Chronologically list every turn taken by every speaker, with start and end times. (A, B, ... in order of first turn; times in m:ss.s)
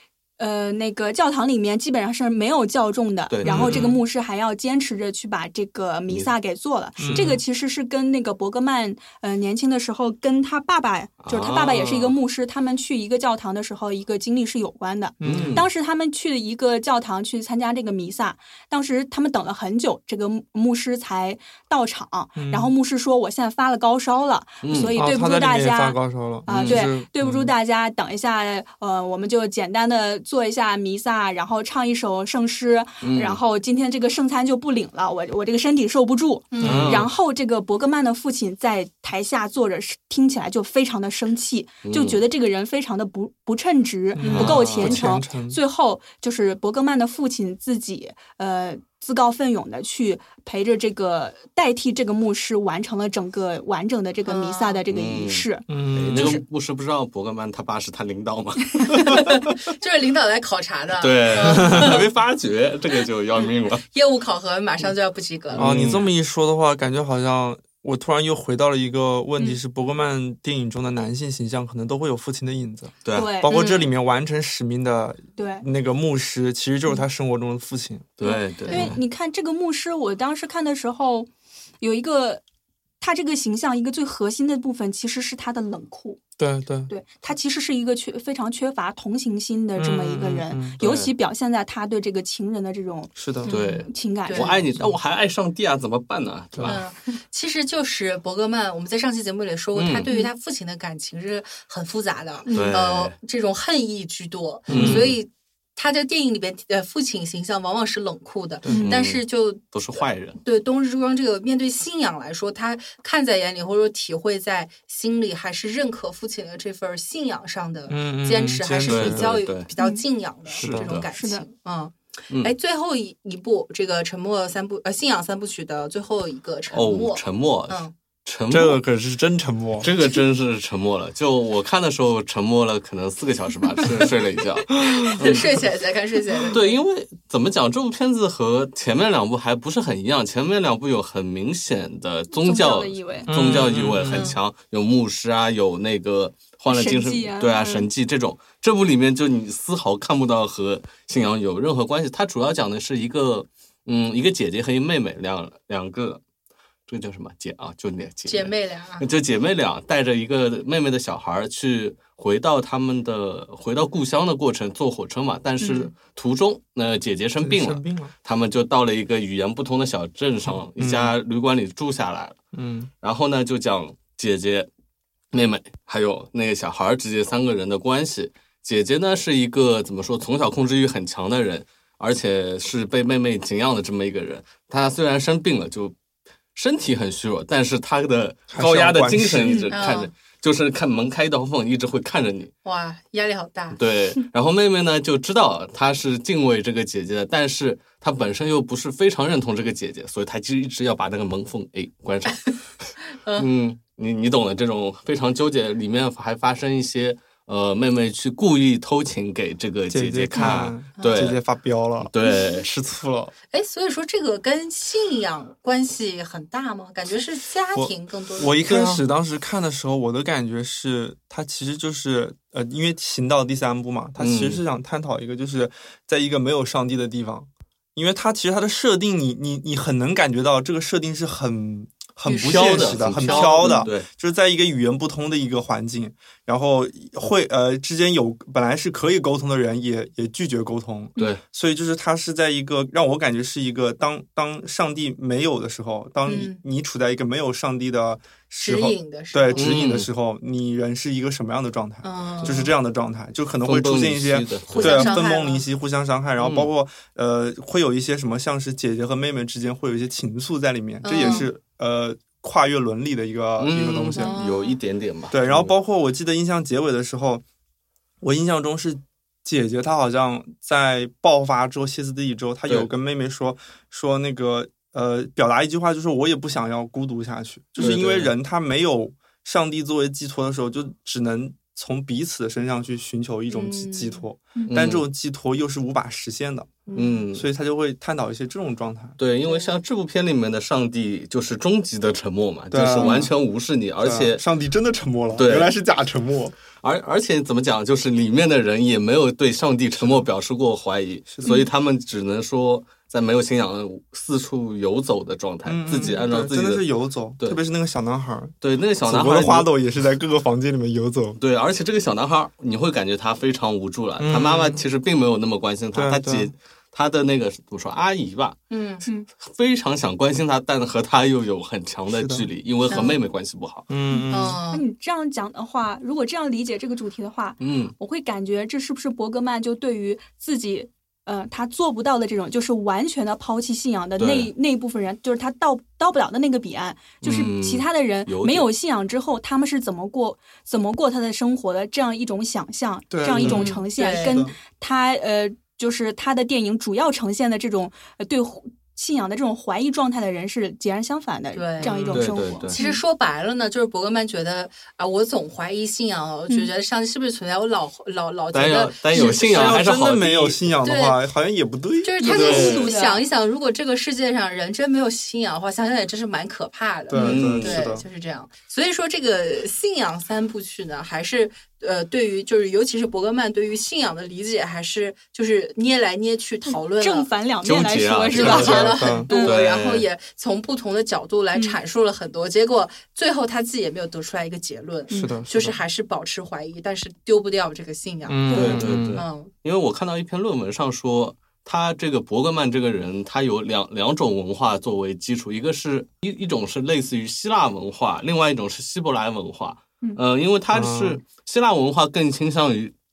0:00.4-0:56.4 A
0:03.3-0:04.0 B
0:03.4-0:03.9 C
0:07.0-0:07.4 C
0:07.1-0:07.4 B
0:11.2-0:12.2 B
0:15.2-0:15.7 C
0:15.2-0:15.7 B
0:22.4-0:22.7 C
0:24.6-0:25.0 B
0:25.0-0:27.5 C
0:26.5-0:26.9 B
0:33.0-0:33.4 B
0:36.5-0:36.9 D
0:36.6-0:37.1 C
0:36.6-0:37.1 B
0:41.8-0:42.2 B
0:44.2-0:45.6 C
0:44.3-0:45.1 B
0:54.3-0:54.8 D
0:54.9-0:59.4 B
0:55.7-0:56.4 C
0:59.1-1:02.1 D
1:01.0-1:03.8 B
1:01.6-1:02.0 C
1:03.4-1:05.7 D
1:05.5-1:06.1 B
1:05.6-1:18.2 C
1:13.0-1:13.3 B
1:13.1-1:13.6 A
1:13.5-1:13.9 D
1:15.4-1:15.7 A
1:18.2-1:19.0 B
1:18.2-1:21.3 A
1:18.7-1:19.0 C
1:21.8-1:22.4 A
1:23.0-1:26.2 A
1:26.4-1:26.9 C
1:26.9-1:34.6 A
1:29.8-1:30.8 C
1:30.8-1:31.1 B
1:33.2-1:33.5 C
1:33.5-1:34.6 D
1:33.5-1:36.8 B
1:36.5-1:36.8 C
1:36.6-1:49.6 D
1:39.8-1:40.1 B
1:42.5-1:42.8 A
1:42.5-1:43.2 B
1:44.7-1:45.2 B
1:44.7-1:45.1 C
1:48.7-1:48.9 A
1:48.7-1:50.4 B
1:50.4-2:07.9 D
1:57.9-1:59.3 C
1:58.9-1:59.7 B
2:00.5-2:01.1 B
2:00.6-2:00.9 C
2:01.1-2:01.5 A
2:06.7-2:08.8 B
2:08.5-2:09.9 C
2:09.8-2:15.6 B
2:14.7-2:15.2 C
2:15.0-2:16.8 D
2:16.5-2:36.2 B
2:22.3-2:23.3 A
2:23.3-2:24.3 C
2:24.1-2:24.4 D
2:26.7-2:27.9 A
2:36.9-2:52.4 B
2:38.3-2:39.1 D
2:45.6-2:45.9 D
2:47.4-2:48.1 C
2:50.8-2:51.2 C
2:52.5-2:52.9 C
2:53.0-2:54.7 B
2:55.3-3:06.0 B
3:06.6-3:12.5 B
3:08.5-3:09.7 C
3:09.7-3:10.1 D
3:12.6-3:13.8 D
3:13.7-3:31.4 B
3:29.9-3:32.1 C
3:31.0-3:31.3 D
3:32.0-3:32.8 B
3:32.7-3:33.3 C
3:33.5-3:39.0 D
3:37.8-4:24.3 C
3:44.2-3:44.6 B
3:52.3-3:53.8 D
3:52.4-3:54.1 B
3:53.6-3:53.9 A
4:06.3-4:06.6 D
4:08.6-4:09.7 D
4:09.6-4:10.1 B
4:12.0-4:12.7 D
4:13.6-4:15.2 B
4:14.7-4:15.6 D
4:16.4-4:16.7 B
4:21.0-4:21.5 D
4:23.6-4:25.7 B
4:24.1-4:24.8 D
4:25.3-4:27.4 C
4:28.2-4:49.2 C
4:37.8-4:38.3 B
4:43.5-4:44.2 D
4:44.7-4:45.0 B
4:46.9-4:47.2 D
4:47.0-4:47.5 B
4:49.2-4:54.4 B
4:49.4-4:49.7 D
4:52.7-4:53.3 C
4:53.0-4:53.3 D
4:54.0-4:56.6 C
4:55.4-4:55.7 B
4:56.8-5:06.8 B
5:00.0-5:00.3 C
5:05.6-5:11.4 C
5:08.6-5:09.7 B
5:11.4-5:18.6 B
5:14.2-5:14.8 C
5:15.9-5:16.5 C
5:18.7-5:19.1 D
5:19.4-5:23.9 B
5:22.1-5:22.5 C
5:22.9-5:23.2 D
5:23.9-5:24.6 C
5:24.1-5:53.0 A
5:24.3-5:24.8 D
5:27.6-5:27.9 B
5:34.2-5:34.5 B
5:37.2-5:38.7 B
5:43.1-5:44.6 C
5:43.4-5:44.5 D
5:43.4-5:43.7 B
5:51.5-5:52.0 D
5:51.8-5:52.3 C
5:52.1-5:52.8 B
5:52.7-5:59.8 D
5:58.5-6:00.6 B
5:59.2-6:02.8 C
6:00.8-6:01.2 D
6:02.0-6:17.3 D
6:02.2-6:03.2 A
6:02.3-6:02.9 B
6:07.1-6:08.0 C
6:07.2-6:07.9 B
6:16.6-6:19.6 A
6:17.6-6:20.1 B
6:18.3-6:29.5 D
6:18.5-6:19.3 C
6:25.1-6:25.4 A
6:25.1-6:25.8 C
6:28.3-6:29.2 C
6:28.5-6:28.9 A
6:28.5-6:42.9 B
6:40.7-6:41.2 C